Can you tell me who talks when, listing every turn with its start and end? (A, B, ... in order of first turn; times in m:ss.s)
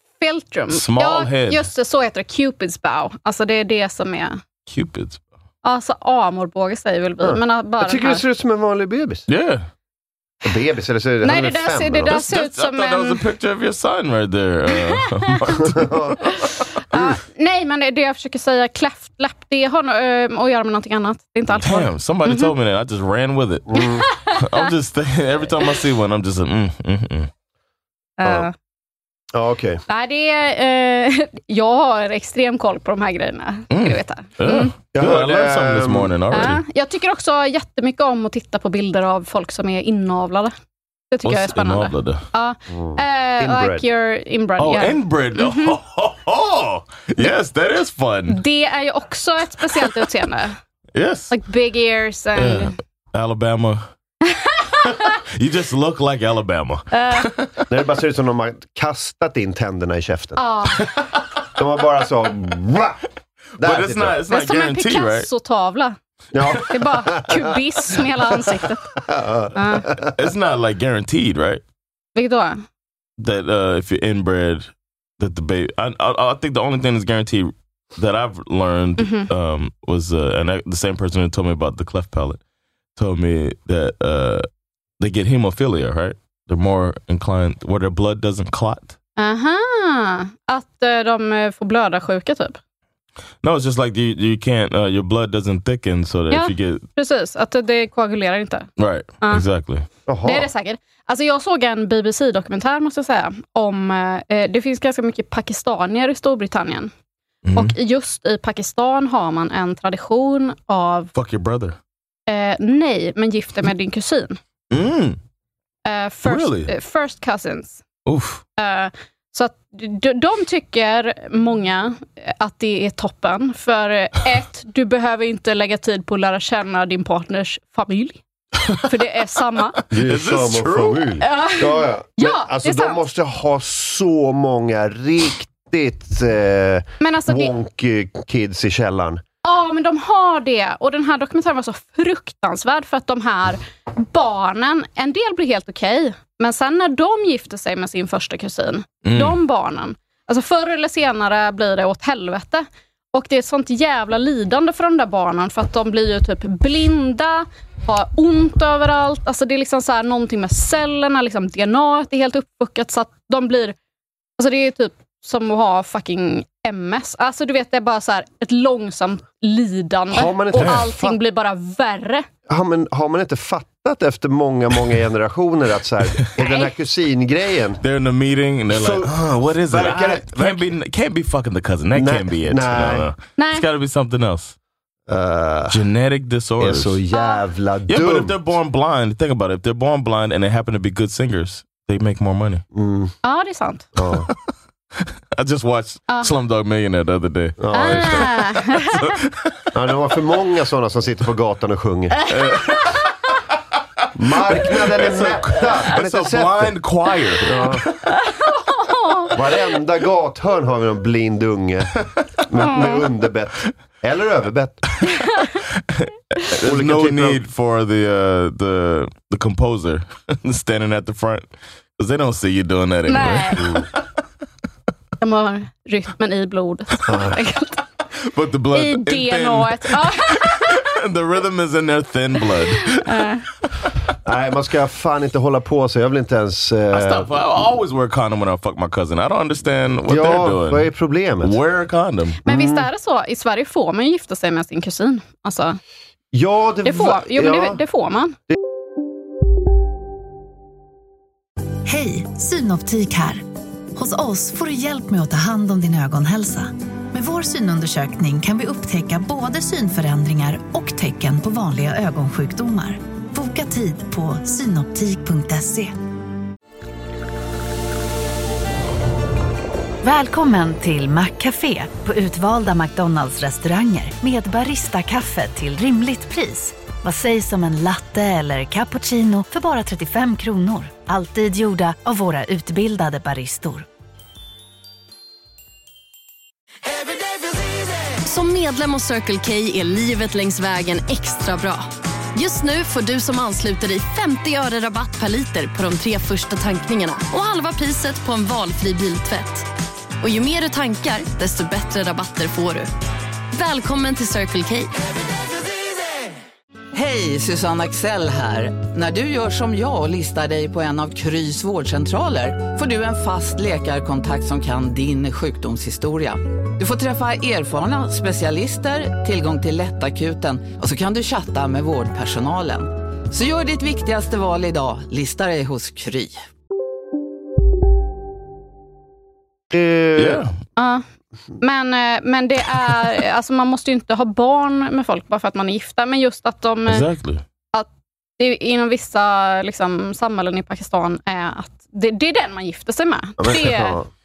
0:00.2-0:04.4 A
0:00.7-0:01.6 B
0:04.7-0:05.2 B
0:05.6-0:08.2 A
0:07.2-0:09.2 C
0:09.3-0:09.7 B
0:10.4-0:12.2 C
0:11.2-0:13.2 A
0:12.1-0:16.2 B
0:15.7-0:16.2 C
0:16.4-0:22.5 A
0:21.6-0:23.7 B
0:23.7-0:24.0 C
0:23.8-0:24.6 A
0:24.4-0:27.3 B
0:28.2-0:28.5 A
0:29.3-0:29.8 C
0:29.9-0:34.7 A
0:33.7-0:36.6 B
0:34.9-0:36.2 C
0:36.3-0:40.5 A
0:41.1-0:45.8 A
0:41.2-0:42.2 B
0:42.7-0:43.8 C
0:44.6-0:48.4 B
0:48.3-0:50.6 A
0:50.9-0:51.3 B
0:51.3-0:52.8 A
0:52.4-0:53.8 B
0:54.2-0:55.0 A
0:54.8-0:57.6 B
0:56.9-0:57.3 A
0:57.7-1:00.4 C
1:00.4-1:00.9 A
1:01.6-1:03.0 C
1:03.6-1:04.2 C
1:03.6-1:05.3 B
1:04.3-1:06.0 A
1:06.3-1:07.5 C
1:06.5-1:09.0 A
1:09.0-1:10.1 C
1:09.5-1:09.9 A
1:10.2-1:11.6 B
1:12.2-1:12.6 A
1:13.2-1:22.4 B
1:19.0-1:19.3 A
1:23.0-1:24.5 B
1:25.0-1:29.0 B
1:29.2-1:32.6 A
1:33.4-1:36.8 B
1:36.3-1:38.7 A
1:38.8-1:39.8 B
1:40.1-1:40.5 C
1:40.2-1:46.9 A
1:47.4-1:47.7 B
1:47.5-1:51.1 A
1:51.1-1:51.8 B
1:52.3-1:54.4 A
1:54.7-1:55.2 B
1:55.8-1:57.8 A
1:56.2-1:56.7 B
1:58.0-1:58.4 B
1:58.6-2:08.2 A
2:08.8-2:09.8 A
2:09.9-2:19.2 C
2:09.9-2:11.1 B
2:11.2-2:13.0 A
2:17.0-2:17.5 A
2:19.4-2:43.8 A
2:29.0-2:29.4 B
2:44.4-2:52.3 A
2:50.1-2:51.2 C
2:50.6-2:50.8 B
2:52.5-2:57.8 C
2:56.4-2:56.7 A
2:57.8-3:04.5 B
2:58.7-3:00.7 C
3:01.9-3:03.1 C
3:03.4-3:03.6 A
3:05.1-3:05.8 C
3:05.7-3:07.0 B
3:06.6-3:08.4 C
3:07.1-3:07.4 A
3:07.9-3:12.6 B
3:12.7-3:13.1 C
3:13.2-3:13.9 A
3:14.0-3:14.3 C
3:15.3-3:18.3 B
3:17.6-3:18.4 C
3:17.7-3:19.1 A
3:19.0-3:19.3 B
3:19.7-3:22.2 C
3:22.3-3:23.0 B
3:22.3-3:23.0 A
3:24.1-3:26.8 C
3:24.6-3:28.0 B
3:27.4-3:27.8 C
3:28.2-3:29.3 A
3:29.3-3:34.8 C
3:32.6-3:33.0 A
3:35.9-3:43.6 B
3:36.6-3:37.4 C
3:43.0-3:43.7 A
3:43.6-3:43.8 C
3:45.2-3:47.8 A
3:47.1-3:47.4 C
3:48.2-3:53.1 B
3:48.7-3:50.9 A
3:52.7-3:53.5 A
3:54.2-3:57.3 C
3:56.9-4:00.9 B
4:00.0-4:01.6 C
4:01.4-4:02.4 B
4:02.4-4:02.9 C
4:02.4-4:05.8 A
4:06.3-4:07.8 C
4:06.8-4:08.4 A
4:11.8-4:13.4 D
4:13.9-4:25.9 D
4:30.0-4:43.9 D
4:48.2-4:59.7 E
5:00.2-5:02.9 E
5:03.5-5:04.9 E
5:06.9-5:26.4 F
5:29.7-5:30.4 C
5:30.2-5:30.6 B
5:30.8-5:31.0 A
5:31.6-5:37.1 A
5:36.9-5:37.4 B
5:38.4-5:44.0 A
5:43.4-5:44.1 C